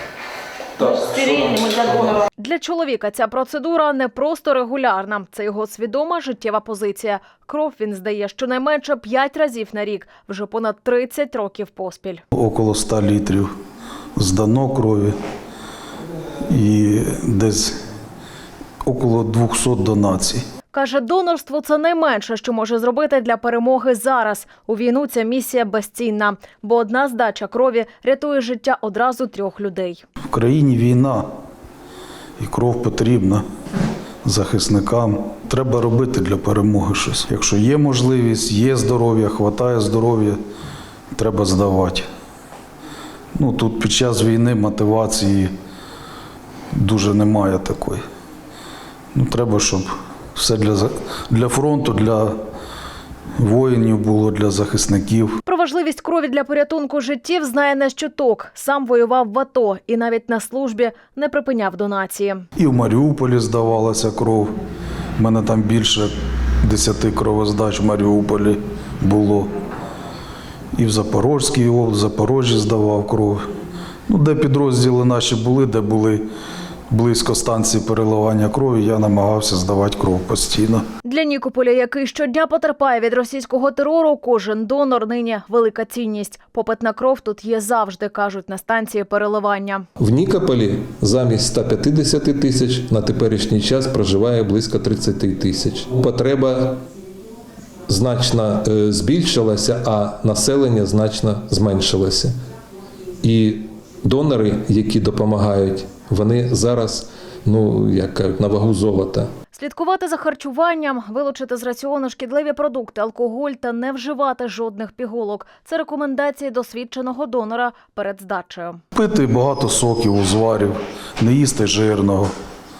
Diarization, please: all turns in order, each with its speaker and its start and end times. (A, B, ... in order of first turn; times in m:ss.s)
0:00.8-0:12.2 A
0:12.3-0:13.5 B
0:14.2-0:15.1 B
0:16.4-0:17.8 B
0:18.8-0:20.4 B
0:20.7-0:30.0 A
0:30.3-0:31.3 B
0:32.4-0:33.4 B
0:34.2-0:40.4 B
0:41.1-0:42.1 B
0:43.4-0:45.5 B
0:46.7-0:48.0 B
0:49.1-0:52.4 B
0:53.4-0:55.4 B
0:55.4-1:02.4 A
1:02.6-1:04.5 B
1:05.2-1:09.5 B
1:10.8-1:13.4 B
1:14.1-1:16.2 B
1:16.9-1:20.8 B
1:21.0-1:29.8 A
1:30.0-1:36.8 C
1:37.9-1:42.3 C
1:43.2-1:49.3 C
1:49.5-1:58.8 A
1:58.9-2:02.3 B